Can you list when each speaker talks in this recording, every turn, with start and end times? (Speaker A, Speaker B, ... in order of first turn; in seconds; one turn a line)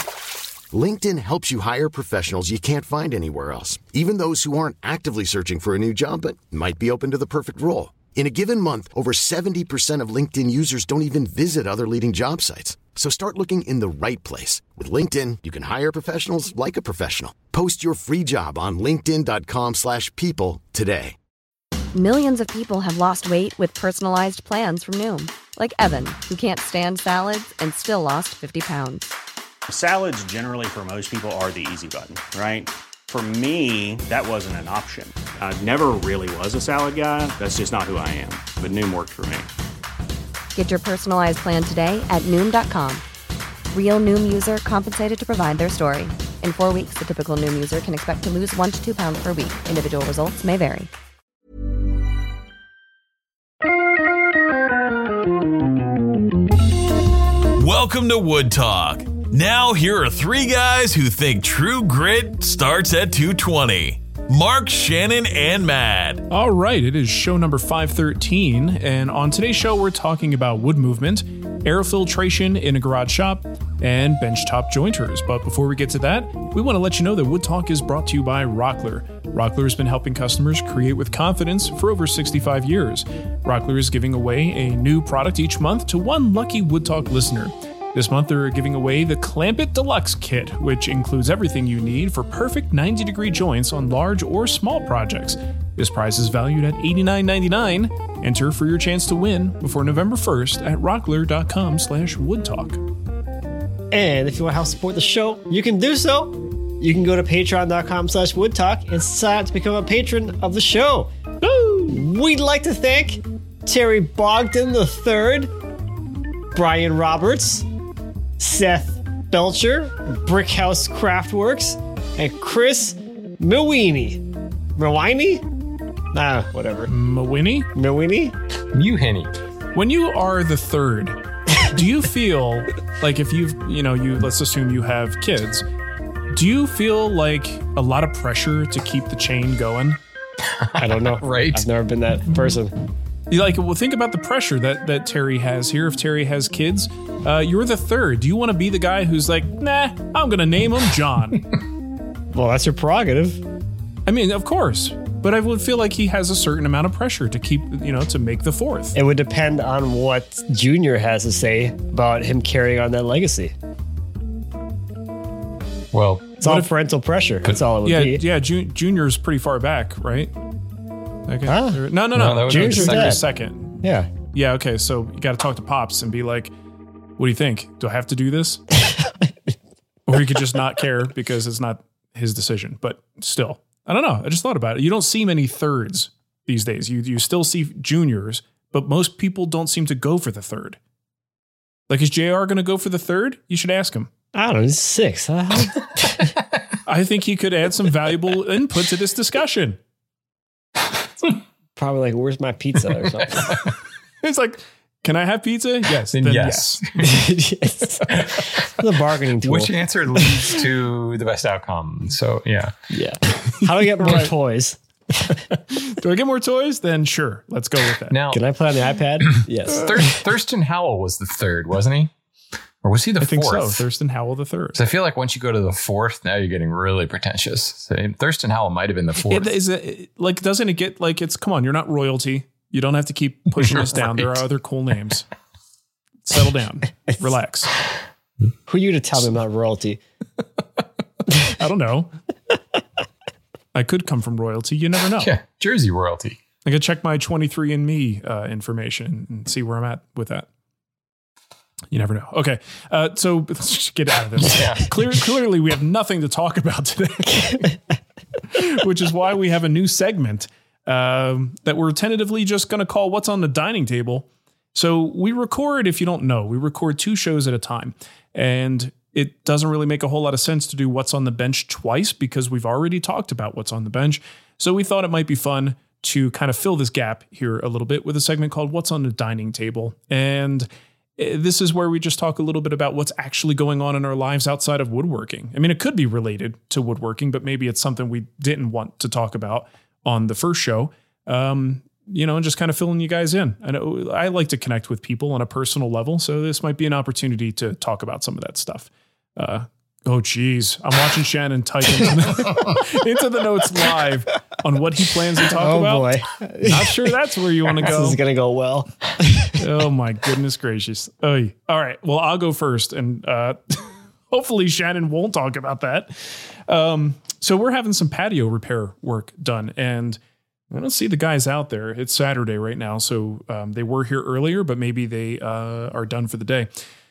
Speaker A: 0.7-21.1
Speaker B: 21.9-29.1
Speaker C: 29.7-39.5
Speaker B: 40.5-43.0
Speaker B: 43.7-50.9
Speaker D: 57.6-66.2
Speaker E: 66.3-102.8
Speaker F: 103.9-115.5
Speaker F: 116.5-117.7
Speaker F: 118.4-125.4
Speaker F: 126.1-126.9
Speaker E: 126.9-127.7
Speaker F: 127.7-128.3
Speaker G: 128.7-129.3
Speaker E: 129.7-135.7
Speaker E: 136.3-140.0
Speaker G: 140.5-141.7
Speaker F: 140.8-142.8
Speaker E: 143.3-151.5
Speaker F: 152.3-153.4
Speaker E: 154.1-158.9
Speaker F: 158.9-163.5
Speaker G: 165.9-166.3
Speaker F: 166.4-168.2
Speaker E: 166.4-166.7
Speaker E: 167.8-170.3
Speaker E: 171.3-173.8
Speaker F: 171.5-171.8
Speaker G: 172.1-173.2
Speaker F: 172.5-173.2
Speaker F: 173.8-174.1
Speaker E: 174.3-176.5
Speaker E: 177.2-178.6
Speaker F: 178.8-179.3
Speaker E: 180.1-190.8
Speaker E: 191.9-194.1
Speaker F: 194.3-196.3
Speaker E: 196.8-199.8
Speaker F: 201.8-203.6
Speaker G: 203.3-203.7
Speaker E: 204.2-206.8
Speaker G: 206.1-207.3
Speaker F: 207.0-210.6
Speaker G: 208.1-208.7
Speaker G: 209.4-212.7
Speaker F: 212.9-215.4
Speaker E: 215.5-218.2
Speaker G: 218.1-218.4
Speaker F: 218.3-219.9
Speaker G: 219.3-222.1
Speaker G: 222.8-223.8
Speaker E: 223.2-224.8
Speaker G: 224.7-229.5
Speaker E: 229.3-235.2
Speaker G: 233.6-234.4
Speaker E: 236.2-237.7
Speaker F: 238.7-240.0
Speaker E: 240.6-240.8
Speaker E: 241.4-242.1
Speaker E: 243.7-245.3
Speaker G: 245.2-246.4
Speaker E: 246.7-250.5
Speaker E: 251.9-257.7
Speaker G: 254.4-254.9
Speaker E: 258.5-308.2
Speaker F: 305.5-309.6
Speaker E: 309.6-320.2
Speaker E: 320.7-326.7